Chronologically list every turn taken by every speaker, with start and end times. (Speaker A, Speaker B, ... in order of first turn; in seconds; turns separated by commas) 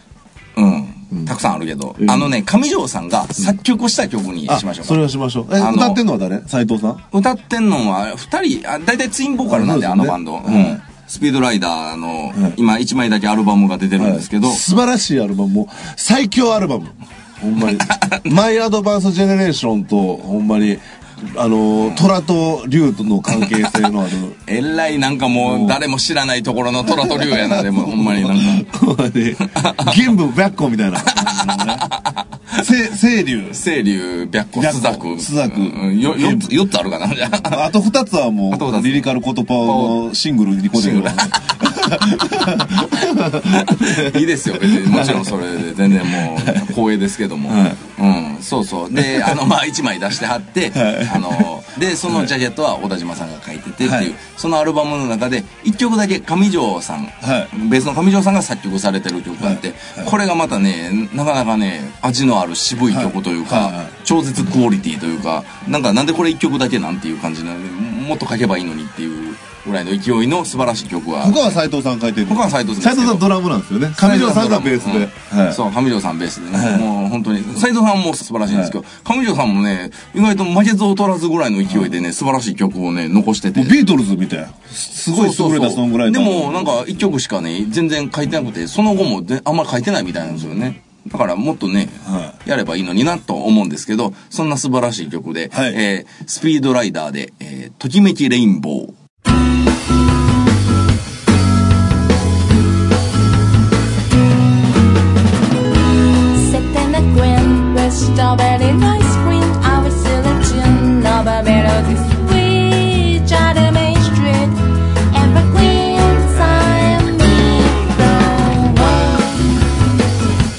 Speaker A: 0.6-5.0, Speaker B: 2.0-2.3, Speaker B: 4.5-7.0, Speaker A: 5.6-6.0, Speaker A: 7.1-14.6, Speaker B: 9.5-10.8, Speaker B: 12.3-12.6, Speaker B: 14.0-24.4, Speaker A: 17.6-18.3, Speaker A: 24.4-28.7, Speaker B: 25.4-25.8, Speaker B: 26.9-31.9, Speaker A: 29.4-30.0, Speaker A: 31.1-32.6, Speaker B: 32.5-33.6, Speaker A: 33.5-37.7, Speaker B: 34.5-36.5, Speaker B: 37.4-46.7, Speaker A: 38.5-40.1, Speaker A: 40.7-41.3, Speaker A: 43.2-71.6, Speaker B: 47.5-47.8, Speaker B: 49.0-49.3, Speaker B: 50.7-51.5, Speaker B: 52.0-52.3, Speaker B: 53.8-54.1, Speaker B: 57.2-57.5, Speaker B: 59.4-60.1, Speaker B: 62.9-63.9, Speaker B: 71.2-75.6, Speaker A: 72.3-73.3, Speaker A: 73.9-83.8, Speaker B: 76.5-76.9, Speaker B: 78.5-78.8, Speaker B: 83.5-86.8, Speaker A: 85.1-99.0, Speaker B: 92.0-92.3, Speaker B: 95.5-95.8, Speaker C: 106.3-119.6